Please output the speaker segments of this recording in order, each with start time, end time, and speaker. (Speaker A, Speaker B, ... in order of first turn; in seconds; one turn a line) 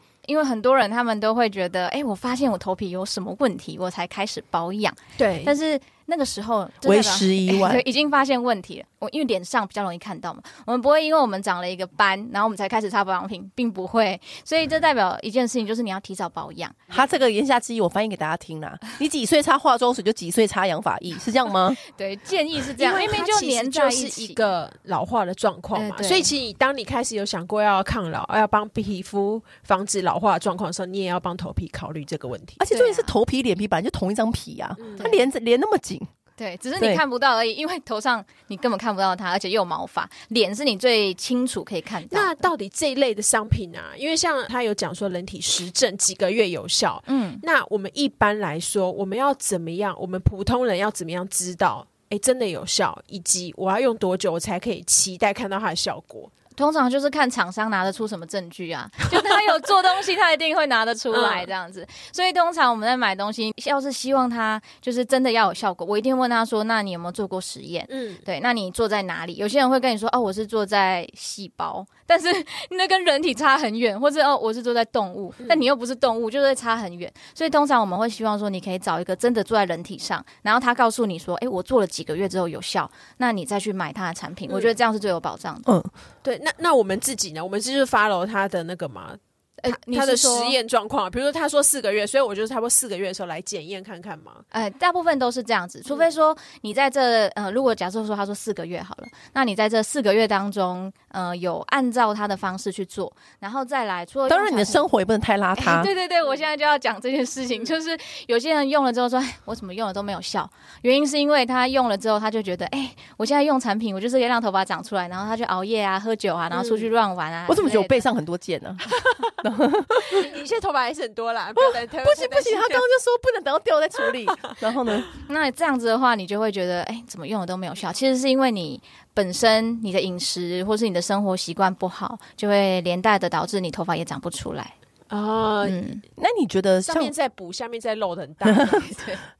Speaker A: 0.2-16.9
Speaker B: 5.2-5.5
Speaker C: 6.8-7.8
Speaker C: 16.9-21.8
Speaker A: 21.8-24.4
Speaker B: 22.8-32.6
Speaker A: 25.7-26.3
Speaker C: 32.6-36.1
Speaker A: 32.7-33.1
Speaker B: 34.8-35.1
Speaker A: 35.0-35.2
Speaker A: 36.4-42.5
Speaker B: 42.1-56.3
Speaker A: 47.1-47.4
Speaker A: 56.6-85.7
Speaker B: 59.1-59.4
Speaker B: 61.1-61.5
Speaker B: 67.9-68.2
Speaker B: 84.5-84.7
Speaker C: 85.6-85.9
Speaker B: 86.2-94.5
Speaker A: 89.6-90.6
Speaker A: 94.5-104.9
Speaker C: 104.3-105.9
Speaker A: 105.5-118.0
Speaker B: 116.5-116.9
Speaker C: 117.5-120.3
Speaker B: 120.0-122.8
Speaker C: 121.5-125.1
Speaker A: 125.2-134.7
Speaker B: 135.1-135.8
Speaker A: 135.6-136.0
Speaker C: 136.2-137.1
Speaker B: 136.8-138.9
Speaker C: 138.4-138.8
Speaker A: 138.8-139.2